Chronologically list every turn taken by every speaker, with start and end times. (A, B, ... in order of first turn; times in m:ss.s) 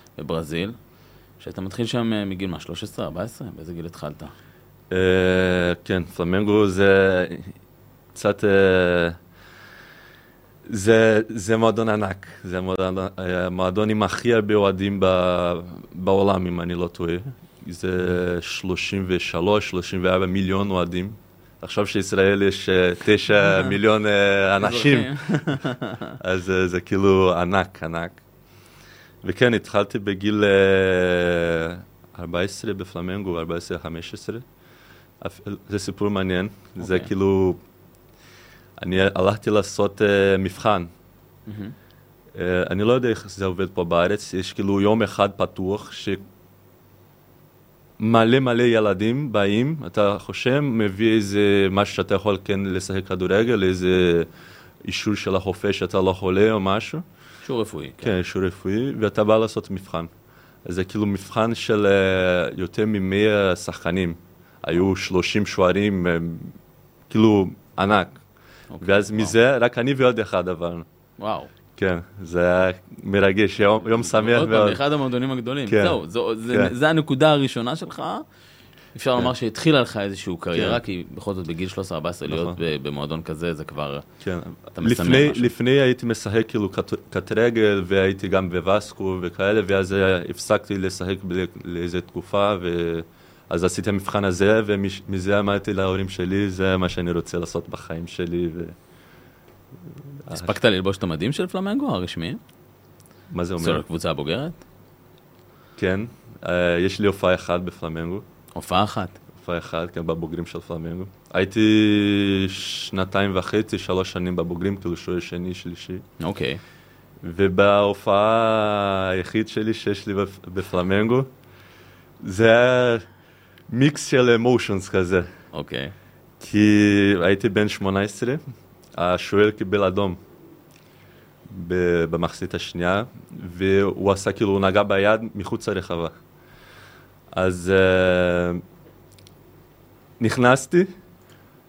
0:00.2-0:00.8 A
0:01.4-0:04.3 A
0:04.9-0:07.5 B
0:08.1-0:09.2 B
0:10.7-0:25.6 B
0:24.6-0:26.2 A
0:26.2-0:28.2 B
0:29.2-0:34.4 B
0:35.2-0:37.6 B
0:36.8-0:37.1 A
0:38.8-0:40.9 B
0:41.5-0:41.7 A
0:42.3-0:46.2 B
0:48.0-0:54.3 B
0:54.9-0:57.0 B
0:57.4-0:58.1 A
0:58.0-1:00.1 B
1:00.6-1:06.6 B
1:07.1-1:08.2 B
1:08.7-1:09.3 A
1:08.8-1:10.8 B
1:11.2-1:11.5 A
1:11.8-1:14.8 B
1:14.0-1:18.2 A
1:15.7-1:16.0 B
1:16.5-1:16.7 B
1:18.9-1:24.0 A
1:20.5-1:20.8 B
1:22.3-1:22.6 B
1:24.2-1:38.7 B
1:24.8-1:25.5 A
1:40.2-1:40.6 B
1:40.3-1:42.4 A
1:43.3-1:43.8 B
1:43.6-1:44.6 A
1:45.8-1:48.2 B
1:48.5-1:49.2 A
1:49.4-1:56.0 B
1:56.2-1:56.6 A
1:57.2-2:01.3 B
2:02.2-2:03.1 B
2:03.7-2:05.3 B
2:05.5-2:05.9 A
2:06.4-2:08.4 B
2:08.9-2:10.2 B
2:11.5-2:16.1 B
2:17.3-2:18.6 B
2:20.2-2:20.9 B